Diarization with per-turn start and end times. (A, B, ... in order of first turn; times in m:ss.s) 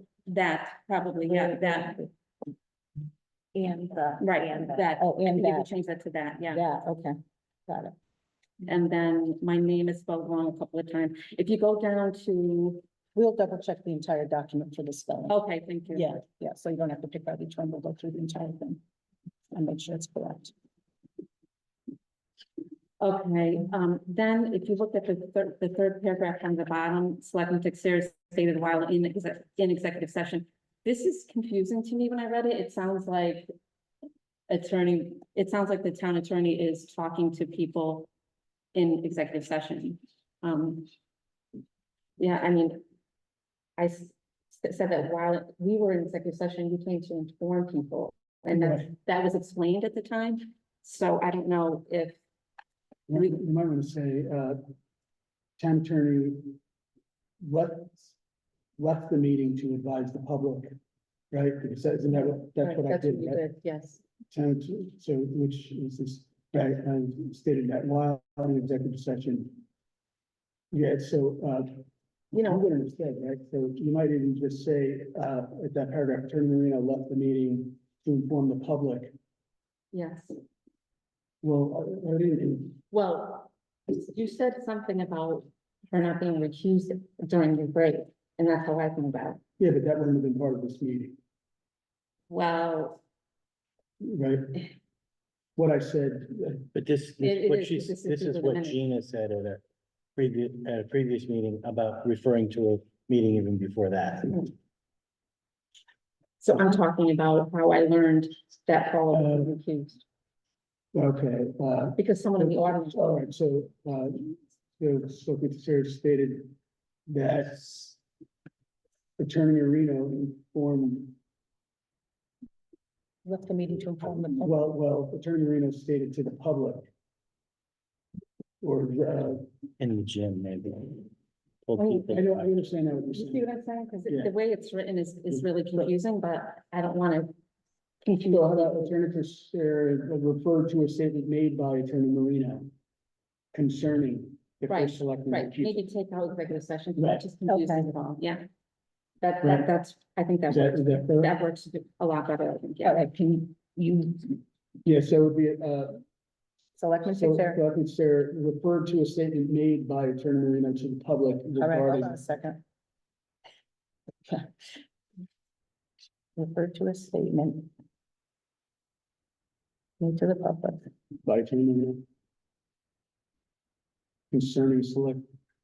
0:00.2-0:02.0 A
0:01.3-0:02.1 B
0:03.5-0:05.7 B
0:04.2-0:06.6 A
0:06.5-0:07.2 B
0:07.7-0:07.9 B
0:08.6-0:12.8 A
0:13.1-0:15.4 B
0:15.3-0:16.2 A
0:15.9-0:18.8 B
0:19.5-0:20.5 B
0:23.0-0:33.5 A
0:34.5-0:38.1 A
0:38.7-0:40.9 A
0:42.2-0:42.8 A
0:43.8-0:52.2 A
0:48.5-0:48.9 C
0:53.1-0:54.6 C
0:55.6-0:56.6 C
0:57.4-0:58.1 C
0:58.8-1:00.7 C
1:01.3-1:03.4 C
1:02.6-1:04.0 A
1:04.3-1:09.6 C
1:10.7-1:11.7 C
1:12.3-1:19.1 C
1:12.3-1:12.6 A
1:19.9-1:20.4 A
1:21.4-1:22.8 C
1:22.9-1:29.4 A
1:29.6-1:31.2 C
1:32.3-1:33.0 A
1:34.0-1:34.7 C
1:35.6-1:36.7 C
1:36.7-1:39.6 D
1:37.2-1:38.8 A
1:40.2-1:44.4 D
1:46.4-1:50.0 A
1:49.1-1:49.5 C
1:50.9-1:56.5 C
1:52.0-1:53.0 A
1:57.1-1:58.0 C
1:59.2-2:01.1 C
2:03.2-2:04.6 B
2:04.4-2:06.9 C
2:08.6-2:09.4 C
2:09.8-2:11.1 D
2:11.7-2:12.5 D
2:11.8-2:12.1 A
2:12.1-2:13.5 C
2:13.1-2:17.3 A
2:14.1-2:14.3 C
2:18.0-2:18.9 A
2:18.2-2:22.7 C
2:23.5-2:25.8 C
2:24.7-2:28.4 A
2:27.0-2:27.2 C
2:27.4-2:27.9 B
2:29.2-2:33.1 A
2:29.4-2:29.7 C
2:30.5-2:31.4 C
2:32.8-2:34.4 B
2:34.8-2:36.0 C
2:36.8-2:37.6 B
2:37.1-2:42.2 C
2:41.6-2:42.6 B
2:46.4-2:47.7 B
2:50.0-2:50.9 B
2:51.2-2:52.0 C
2:54.3-2:55.2 C